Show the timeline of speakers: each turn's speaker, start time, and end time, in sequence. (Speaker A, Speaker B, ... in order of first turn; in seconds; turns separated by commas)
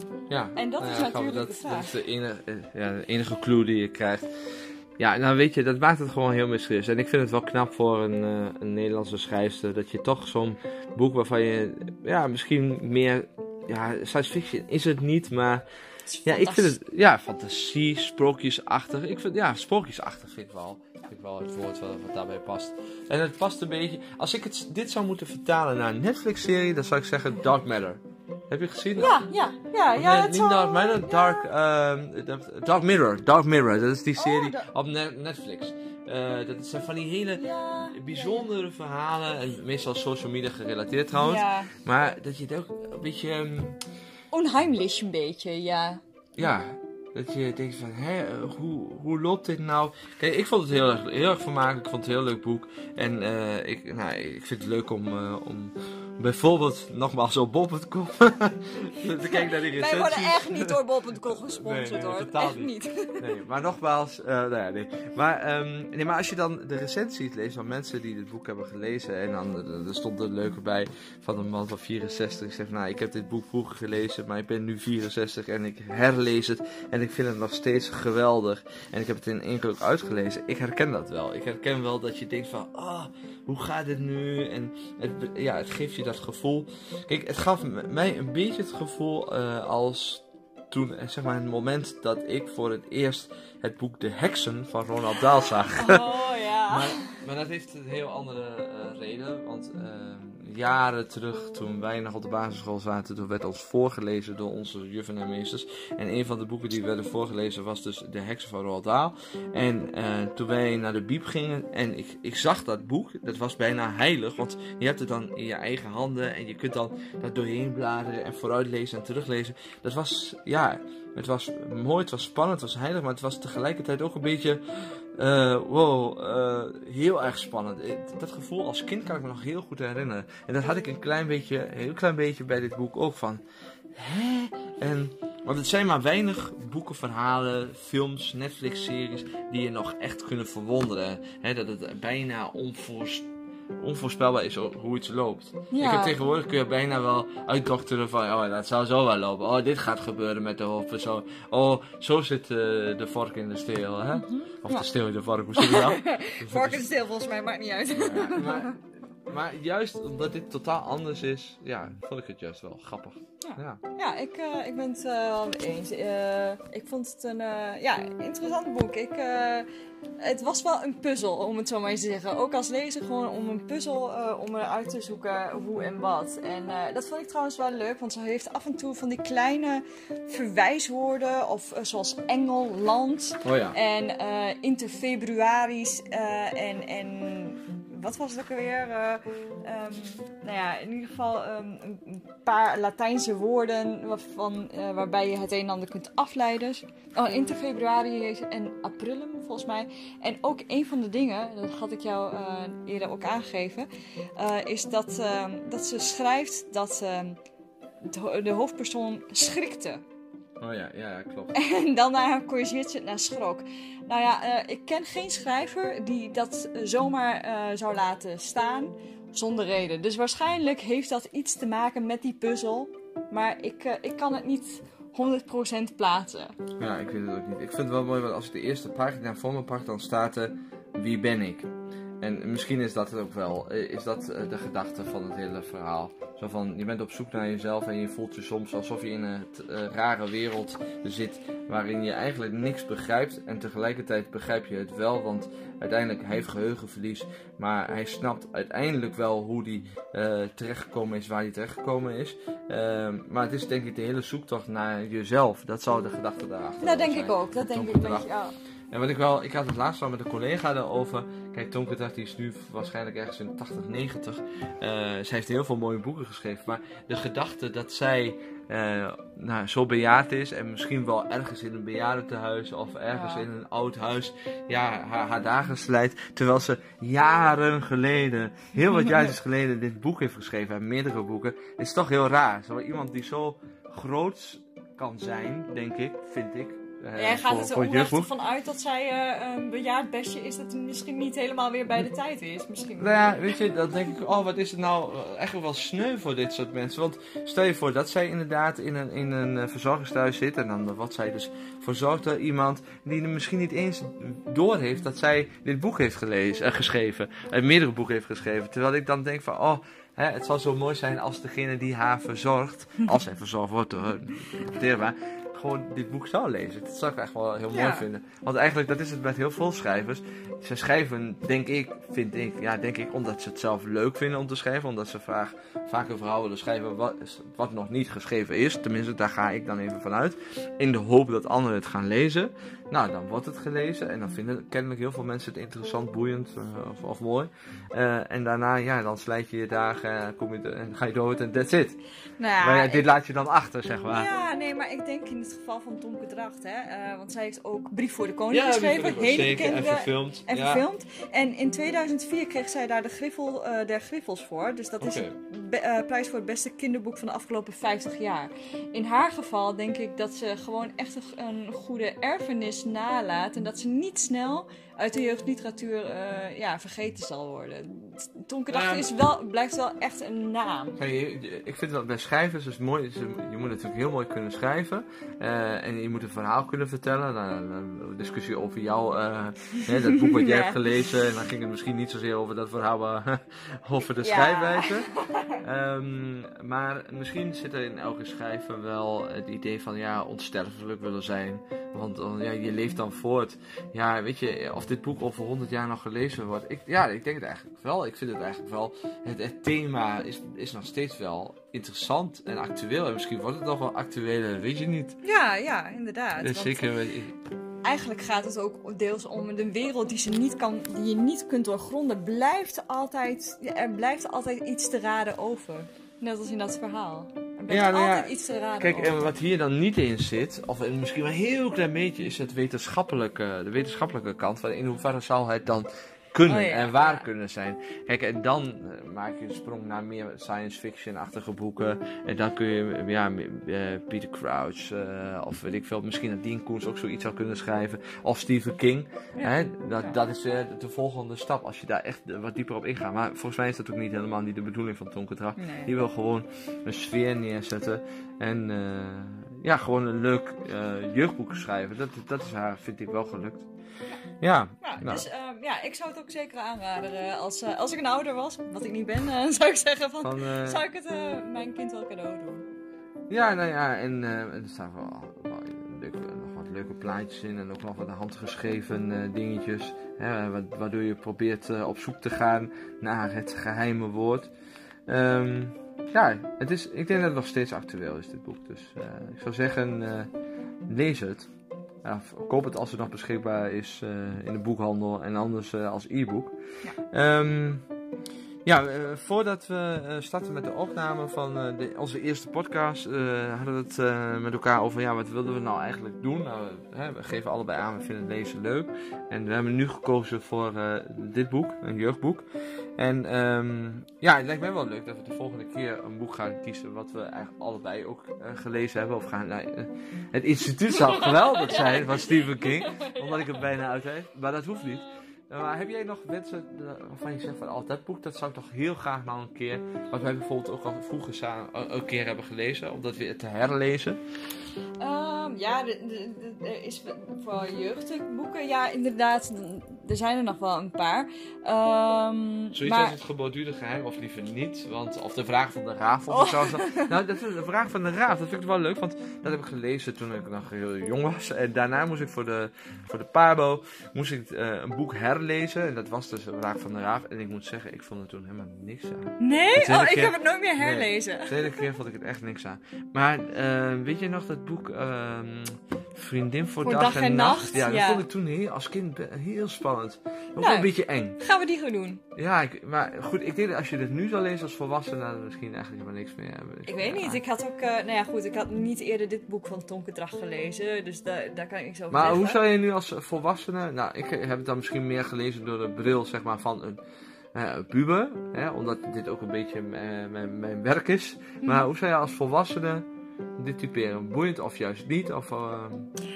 Speaker A: 0.3-4.3, Speaker B: 0.6-2.0, Speaker A: 5.0-15.6, Speaker B: 16.1-16.8, Speaker A: 16.2-29.2, Speaker B: 29.0-31.5, Speaker A: 29.9-43.8, Speaker B: 34.2-34.7, Speaker B: 37.4-38.5, Speaker B: 41.1-41.7, Speaker B: 44.3-46.0, Speaker A: 46.4-60.8, Speaker B: 59.0-63.3, Speaker A: 61.4-96.1, Speaker B: 95.5-97.2, Speaker A: 96.7-124.6, Speaker A: 125.1-143.3, Speaker A: 143.8-156.9, Speaker B: 145.7-146.2, Speaker B: 154.1-154.8, Speaker B: 155.6-158.8, Speaker A: 157.9-163.8, Speaker B: 163.4-169.7, Speaker B: 170.2-207.4, Speaker A: 183.4-183.8, Speaker B: 208.0-210.0, Speaker A: 210.6-211.6, Speaker B: 211.5-226.6, Speaker A: 226.8-258.3, Speaker B: 256.8-258.5, Speaker A: 258.9-288.3, Speaker B: 273.1-273.5, Speaker B: 287.2-293.5, Speaker A: 293.0-342.0, Speaker B: 317.7-318.1, Speaker B: 342.4-343.1, Speaker A: 342.6-344.3, Speaker B: 344.1-371.0, Speaker A: 348.5-350.8, Speaker A: 355.0-355.4, Speaker A: 368.7-369.1, Speaker A: 371.0-385.1, Speaker B: 379.8-380.8, Speaker B: 384.2-385.6, Speaker A: 385.6-405.2, Speaker B: 405.2-406.9, Speaker A: 406.4-407.3, Speaker B: 407.8-419.3, Speaker A: 417.7-453.7, Speaker B: 426.5-427.2, Speaker B: 439.4-440.2, Speaker B: 445.6-445.9, Speaker A: 454.4-455.2, Speaker B: 454.8-462.7, Speaker A: 460.2-460.8, Speaker A: 463.3-474.5, Speaker A: 475.1-480.3, Speaker A: 480.9-481.5, Speaker A: 482.0-486.6, Speaker A: 487.1-487.9, Speaker A: 488.6-502.5, Speaker A: 503.0-524.2, Speaker B: 510.9-513.7, Speaker B: 514.8-515.2, Speaker B: 525.0-533.2, Speaker A: 532.8-561.4, Speaker B: 536.3-537.1, Speaker B: 549.4-551.9, Speaker B: 556.8-558.2, Speaker B: 560.6-562.2, Speaker A: 562.4-567.4, Speaker B: 566.9-572.6, Speaker A: 572.1-577.0, Speaker A: 577.5-583.1, Speaker B: 581.6-581.9, Speaker A: 583.6-586.1